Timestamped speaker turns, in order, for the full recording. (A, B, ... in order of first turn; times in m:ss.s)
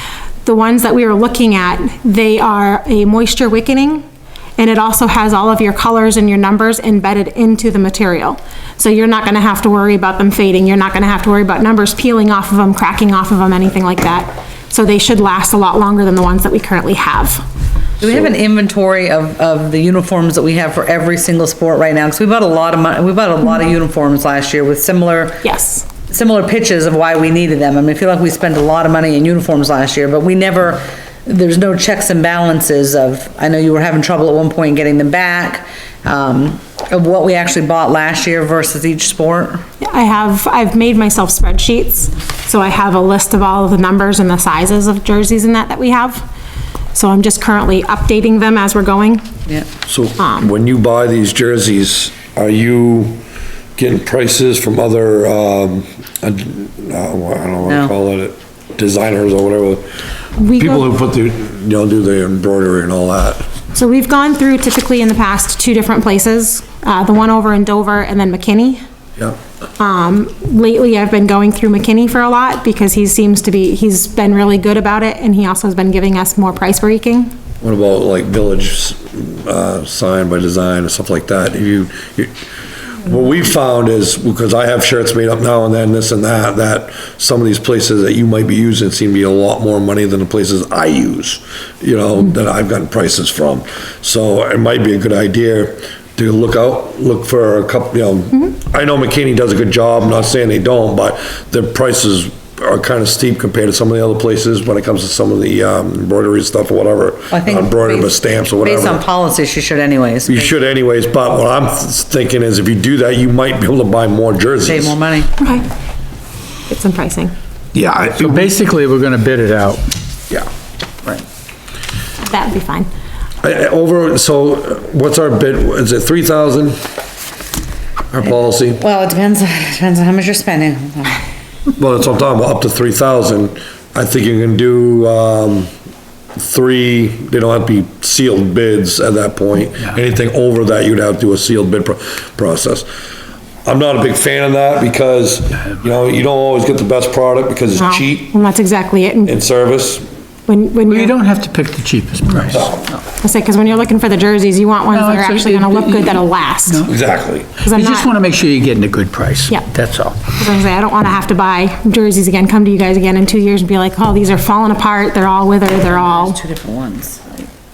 0:00.5-0:04.0 A
0:04.6-0:17.4 A
0:18.0-0:25.4 B
0:25.4-0:25.9 A
0:26.1-0:39.6 B
0:39.8-0:46.3 A
0:46.9-0:49.3 A
0:49.9-0:53.2 C
0:50.2-0:50.5 A
0:53.8-0:59.9 C
0:57.6-0:57.9 B
1:00.4-1:00.8 A
1:00.6-1:03.4 C
1:03.7-1:08.8 A
1:09.8-1:17.3 A
1:17.6-1:22.3 C
1:23.0-1:49.0 C
1:47.3-1:50.6 B
1:50.3-1:55.0 C
1:54.7-1:55.4 B
1:55.4-1:55.7 A
1:56.7-1:57.3 A
1:57.8-1:59.9 D
1:58.2-1:58.5 C
2:02.2-2:02.9 A
2:03.4-2:06.8 C
2:08.1-2:08.8 C
2:08.7-2:11.2 B
2:11.8-2:15.7 C
2:16.4-2:22.9 C
2:23.6-2:28.3 C
2:27.8-2:29.4 A
2:29.3-2:30.0 C
2:30.5-2:31.2 A
2:30.9-2:32.7 D
2:32.5-2:32.8 C
2:33.2-2:36.9 A
2:34.9-2:36.9 D
2:36.9-2:37.5 C
2:37.6-2:38.1 A
2:37.7-2:40.2 D
2:40.4-2:46.4 A
2:45.7-2:47.5 B